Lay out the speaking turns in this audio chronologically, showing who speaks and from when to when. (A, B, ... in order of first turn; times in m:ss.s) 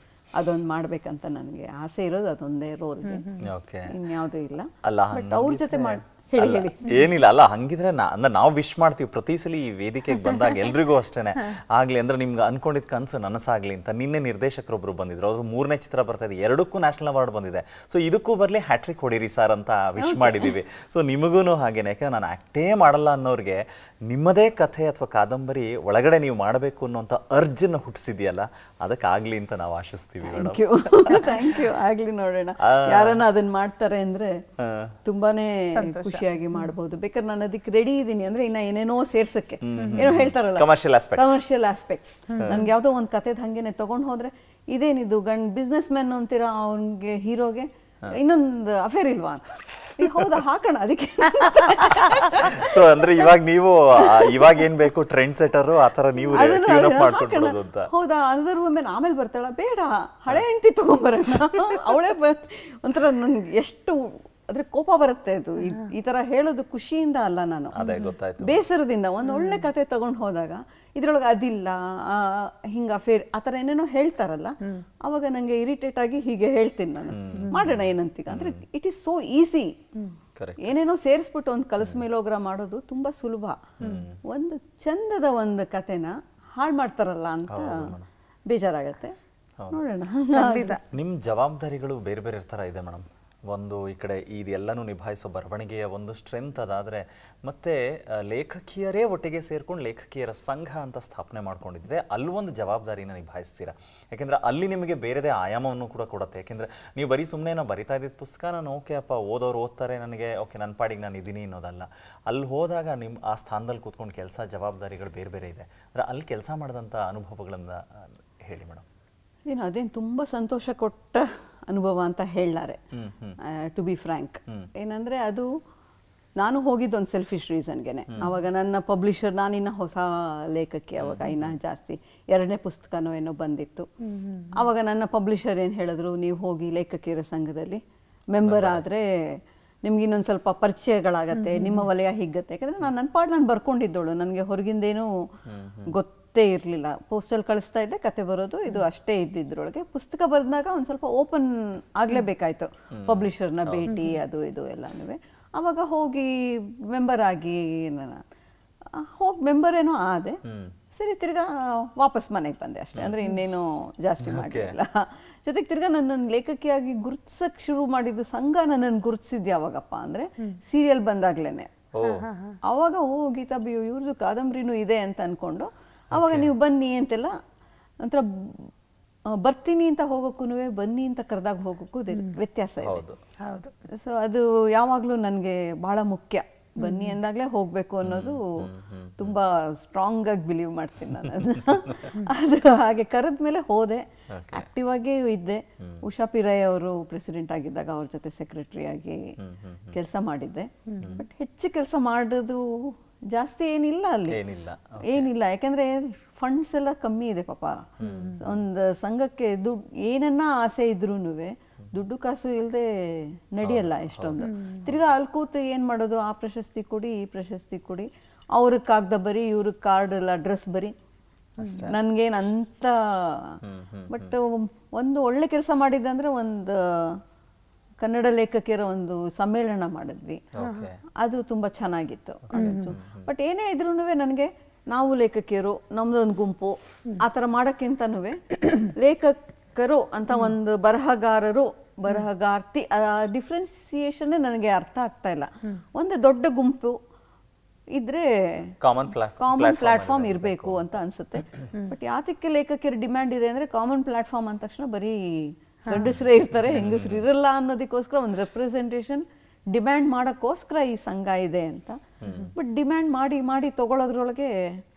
0:00.4-0:03.2 A
0:03.1-0:03.4 B
0:03.4-0:03.9 C
0:03.9-0:07.0 A
0:04.8-0:31.4 C
0:20.0-0:20.5 A
0:30.2-0:34.4 A
0:32.6-0:33.2 C
0:34.6-0:35.0 C
0:35.0-0:52.8 A
0:35.8-0:36.7 B
0:39.6-0:41.4 C
0:39.8-0:40.2 B
0:42.3-0:42.7 B
0:42.4-0:42.7 C
0:50.0-0:50.3 C
0:52.2-0:57.9 C
0:54.0-0:54.5 A
0:56.3-1:07.9 A
1:01.4-1:01.9 C
1:07.7-1:08.6 C
1:07.8-1:08.1 B
1:08.4-1:19.7 A
1:09.2-1:09.7 B
1:17.1-1:18.6 C
1:20.4-1:20.8 C
1:20.6-1:23.6 A
1:23.8-1:24.2 C
1:23.8-1:24.1 B
1:24.3-1:27.9 A
1:27.5-1:28.1 C
1:28.5-1:29.2 A
1:29.7-1:30.8 A
1:30.3-1:30.8 B
1:30.9-1:58.8 C
1:59.5-2:02.8 A
2:02.9-2:03.4 C
2:03.4-2:05.5 A
2:06.4-2:13.9 A
2:08.1-2:08.4 C
2:11.0-2:11.5 C
2:14.0-2:14.5 B
2:14.6-2:25.3 A
2:18.4-2:18.8 C
2:21.4-2:21.9 B
2:25.5-2:25.9 C
2:25.9-2:38.2 A
2:32.9-2:34.0 C
2:33.9-2:34.2 B
2:38.9-2:40.4 A
2:40.4-2:40.8 C
2:41.0-2:51.7 A
2:42.9-2:43.2 C
2:44.2-2:44.8 C
2:51.9-2:52.3 C
2:52.0-2:52.6 B
2:52.6-2:57.4 A
2:56.1-2:56.5 C
2:58.0-2:58.7 A
2:59.3-3:03.0 A
3:02.8-3:03.2 C
3:03.4-3:03.7 B
3:03.9-3:19.2 A
3:06.8-3:07.1 B
3:08.0-3:09.4 C
3:14.3-3:14.7 C
3:19.4-3:20.0 C
3:19.9-3:24.4 A
3:20.9-3:21.2 B
3:24.3-3:25.3 C
3:25.0-3:40.9 A
3:28.0-3:28.4 C
3:28.1-3:28.4 B
3:33.6-3:35.0 C
3:34.4-3:34.8 B
3:41.6-3:41.9 C
3:41.9-3:47.2 A
3:43.6-3:44.4 C
3:48.0-3:50.4 A
3:50.5-3:51.0 C
3:50.6-3:50.9 B
3:51.2-4:07.0 A
3:52.5-3:53.3 C
3:52.6-3:52.9 B
4:07.9-4:08.7 A
4:08.8-4:11.0 C
4:09.4-4:22.0 A
4:16.6-4:17.2 C
4:22.2-4:22.5 C
4:22.6-4:24.8 A